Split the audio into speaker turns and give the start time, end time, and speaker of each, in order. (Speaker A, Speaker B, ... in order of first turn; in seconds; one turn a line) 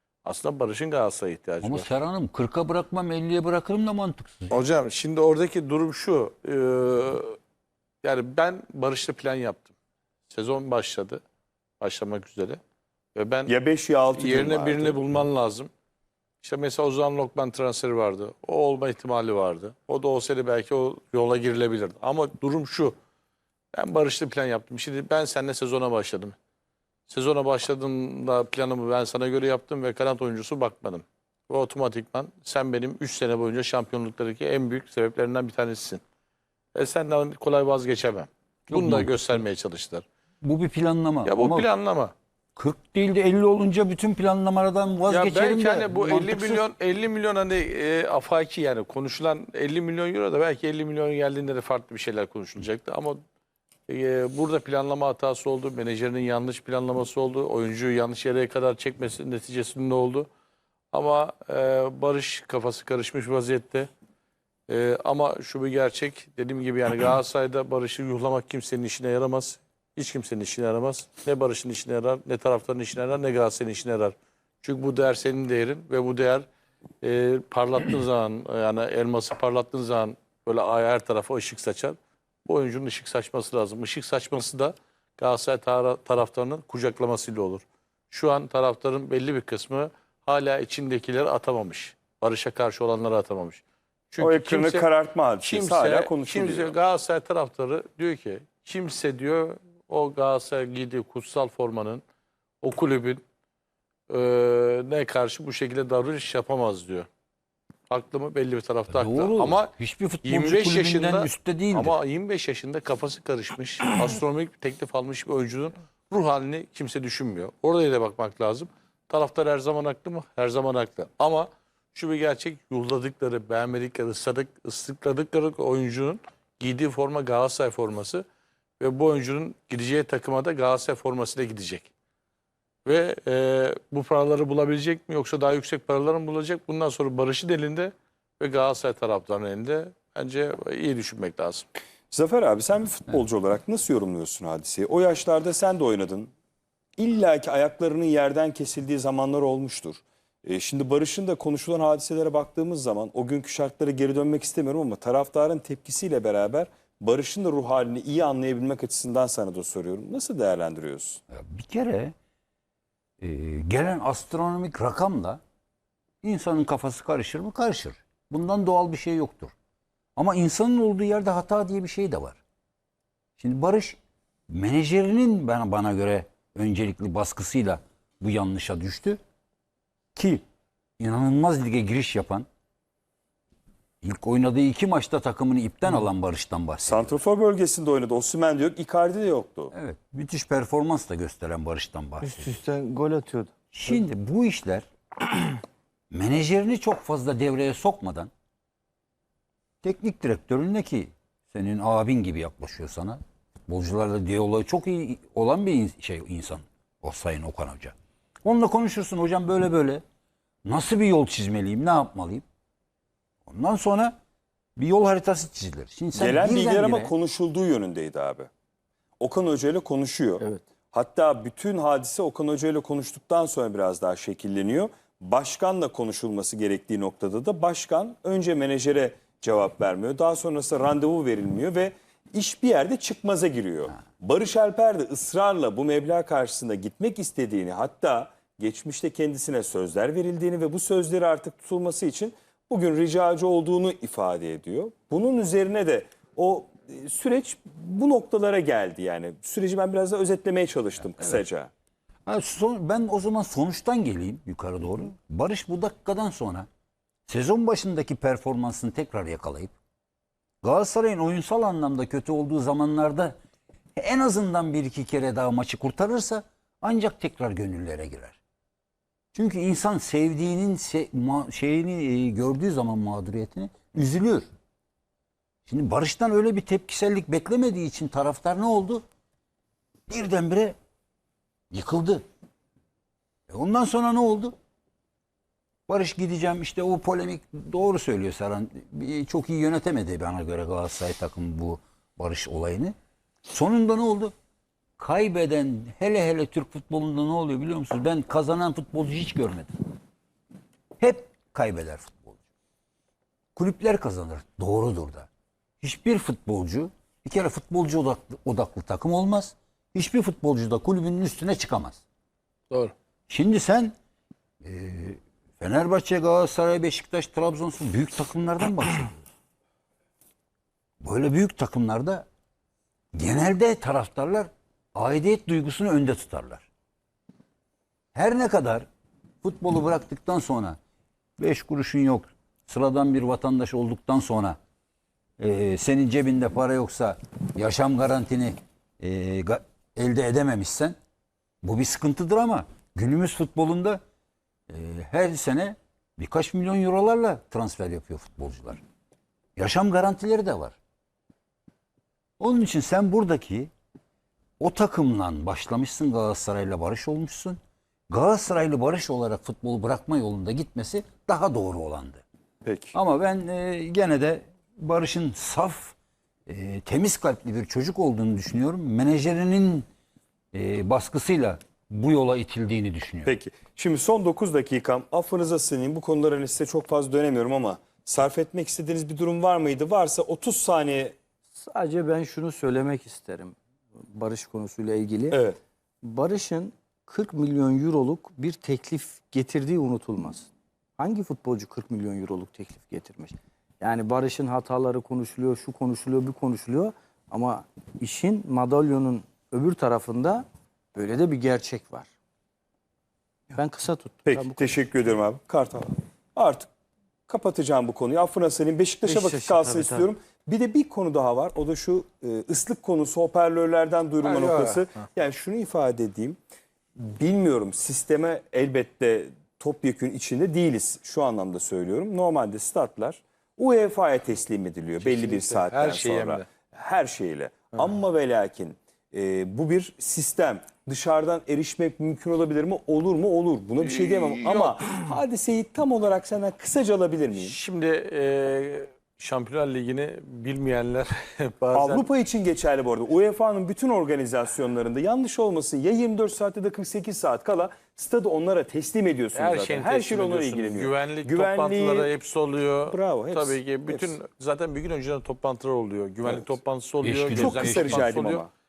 Speaker A: 0.2-1.9
Speaker B: 1.6-4.6
Speaker A: 4.5-7.4
Speaker A: 8.0-9.7
Speaker A: 10.3-11.2
Speaker A: 11.8-12.6
Speaker A: 13.1-13.5
Speaker C: 13.5-15.0
Speaker A: 14.1-15.7
Speaker A: 16.4-22.9
Speaker A: 23.7-26.3
Speaker A: 27.1-36.0
Speaker A: 36.7-40.0
Speaker B: 38.7-39.4
Speaker B: 40.4-41.7
Speaker A: 41.2-42.1
Speaker B: 42.5-46.6
Speaker A: 45.1-53.2
Speaker A: 53.9-60.3
Speaker A: 60.9-63.9
Speaker A: 64.7-76.5
Speaker A: 77.0-94.8
Speaker C: 94.2-96.7
Speaker A: 95.4-102.0
Speaker A: 102.6-103.2
Speaker A: 104.1-107.1
Speaker A: 107.9-109.7
Speaker B: 108.9-112.0
Speaker A: 110.2-128.2
Speaker A: 128.8-131.9
Speaker A: 132.8-141.7
Speaker C: 142.1-146.3
Speaker C: 147.0-161.2
Speaker B: 161.3-162.1
Speaker B: 163.2-165.4
Speaker B: 166.2-169.5
Speaker B: 170.2-172.4
Speaker B: 173.4-179.2
Speaker B: 180.1-180.4
Speaker B: 181.0-182.5
Speaker B: 184.0-187.2
Speaker C: 186.8-189.7
Speaker B: 189.7-192.6
Speaker D: 192.4-193.5
Speaker B: 193.7-194.9
Speaker B: 196.1-198.3
Speaker B: 199.8-210.0
Speaker B: 210.6-212.4
Speaker B: 213.4-214.2
Speaker B: 214.8-217.1
Speaker C: 216.1-218.5
Speaker C: 219.2-251.7
Speaker B: 252.2-256.7
Speaker B: 257.3-259.7
Speaker B: 260.6-263.4
Speaker B: 263.9-268.4
Speaker B: 269.3-274.5
Speaker B: 275.6-279.0
Speaker B: 280.1-280.8
Speaker B: 281.7-282.2
Speaker B: 283.5-284.5
Speaker B: 285.9-292.9
Speaker B: 293.5-294.3
Speaker B: 295.0-299.7
Speaker B: 301.0-302.4
Speaker B: 303.6-305.3
Speaker B: 305.8-312.0
Speaker B: 313.3-313.9
Speaker B: 314.6-319.2
Speaker B: 321.0-322.2
Speaker B: 323.1-326.7
Speaker B: 328.1-328.9
Speaker B: 329.4-330.8
Speaker B: 331.4-334.6
Speaker B: 335.4-340.9
Speaker B: 341.6-344.0
Speaker B: 344.7-348.8
Speaker B: 349.6-350.8
Speaker B: 352.4-353.7
Speaker B: 354.6-357.6
Speaker B: 358.1-362.2
Speaker C: 362.6-362.9
Speaker B: 362.9-365.9
Speaker B: 366.5-369.9
Speaker B: 370.5-373.3
Speaker C: 373.2-381.1
Speaker D: 381.5-383.6
Speaker D: 384.1-385.4
Speaker C: 385.3-385.6
Speaker D: 386.0-402.1
Speaker D: 403.5-404.8
Speaker C: 404.2-406.7
Speaker C: 407.3-416.4
Speaker D: 409.1-410.1
Speaker D: 414.2-414.8
Speaker C: 416.9-437.5
Speaker A: 425.0-426.5
Speaker A: 433.8-435.0
Speaker A: 437.4-442.0
Speaker C: 441.7-452.1
Speaker A: 449.3-458.4
Speaker C: 452.9-454.1
Speaker B: 457.0-458.1
Speaker C: 457.3-458.5